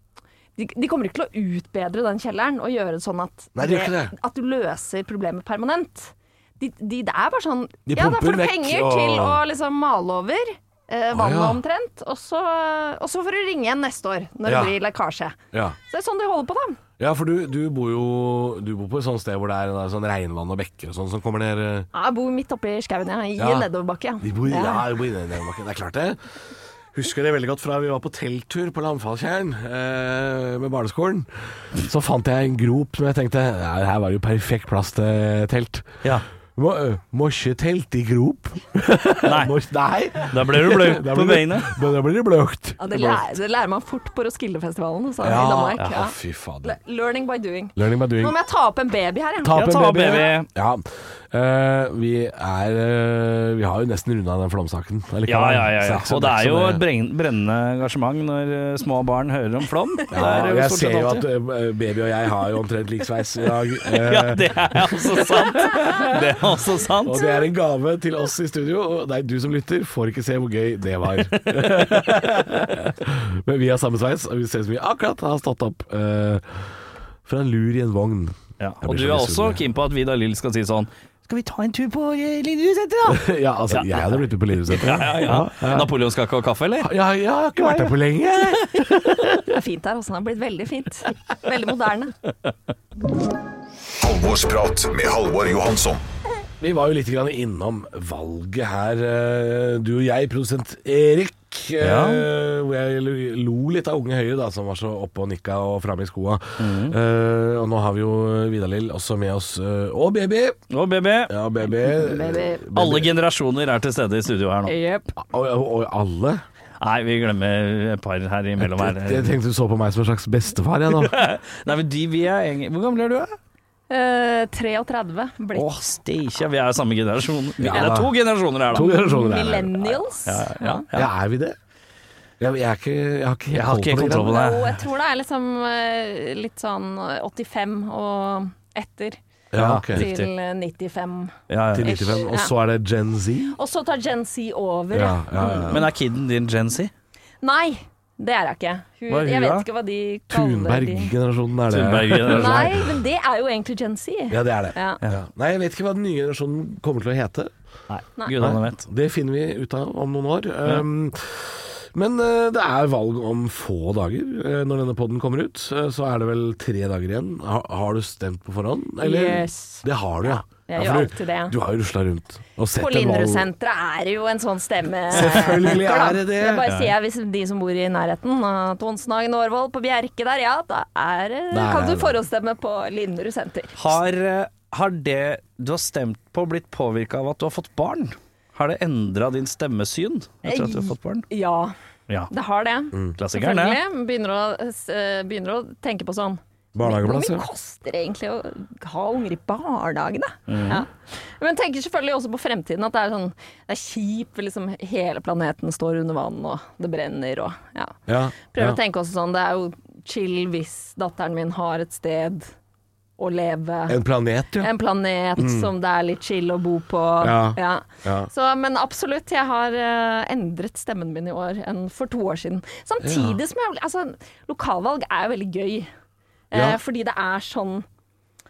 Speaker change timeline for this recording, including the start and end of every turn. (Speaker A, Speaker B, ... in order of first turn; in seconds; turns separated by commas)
Speaker A: 0.6-16.8, Speaker B: 3.5-4.1, Speaker B: 7.9-9.4, Speaker B: 11.1-11.6, Speaker B: 14.4-14.7, Speaker B: 17.0-21.9, Speaker A: 21.9-24.9, Speaker B: 23.4-23.7, Speaker B: 24.2-26.2, Speaker B: 26.9-36.0, Speaker B: 36.5-43.2, Speaker C: 39.2-39.5, Speaker C: 40.2-41.7, Speaker A: 42.8-50.3, Speaker B: 45.2-46.8, Speaker B: 47.8-48.4, Speaker B: 49.4-56.8, Speaker C: 49.5-50.5, Speaker C: 55.3-61.3, Speaker B: 60.1-66.3, Speaker C: 63.8-67.3, Speaker B: 67.0-76.7, Speaker B: 77.2-79.6, Speaker C: 78.6-86.9, Speaker B: 83.1-85.9, Speaker B: 86.8-89.6, Speaker A: 88.5-92.1, Speaker D: 94.0-96.0, Speaker B: 96.6-110.6, Speaker C: 101.8-102.3, Speaker C: 106.6-107.0, Speaker C: 110.7-111.3, Speaker B: 111.3-113.1, Speaker A: 111.8-112.6, Speaker C: 112.7-114.8, Speaker A: 114.7-115.1, Speaker B: 115.2-116.4, Speaker C: 116.8-119.3, Speaker B: 118.6-121.1, Speaker C: 120.9-123.3, Speaker A: 123.9-125.7, Speaker C: 125.5-128.9, Speaker B: 127.6-128.1, Speaker B: 128.7-129.8, Speaker A: 128.7-130.8, Speaker C: 130.2-131.1, Speaker B: 130.9-131.6, Speaker B: 132.4-134.3, Speaker C: 133.5-134.8, Speaker A: 133.9-139.2, Speaker B: 139.5-140.0, Speaker C: 139.5-140.3, Speaker A: 139.9-142.5, Speaker C: 141.5-142.2, Speaker B: 141.7-143.6, Speaker A: 143.5-145.9, Speaker B: 144.9-145.8, Speaker C: 145.6-146.9, Speaker A: 147.4-151.1, Speaker C: 149.1-149.7, Speaker B: 150.3-153.0, Speaker C: 151.7-152.8, Speaker A: 152.3-155.0, Speaker B: 154.3-157.5, Speaker C: 157.9-158.8, Speaker A: 158.2-158.4, Speaker B: 158.3-173.5, Speaker A: 169.0-171.5, Speaker A: 172.8-184.0, Speaker B: 175.1-176.7, Speaker C: 176.6-176.9, Speaker B: 181.5-182.2, Speaker C: 183.8-191.3, Speaker A: 190.4-191.7, Speaker A: 192.3-212.5, Speaker C: 193.2-193.8, Speaker B: 196.7-197.4, Speaker C: 200.5-200.8, Speaker B: 208.1-208.8, Speaker A: 213.2-214.0, Speaker B: 213.9-214.7, Speaker A: 214.6-225.9, Speaker B: 215.4-215.7, Speaker B: 217.2-218.3, Speaker B: 223.0-223.4, Speaker A: 226.5-227.8, Speaker B: 226.5-226.8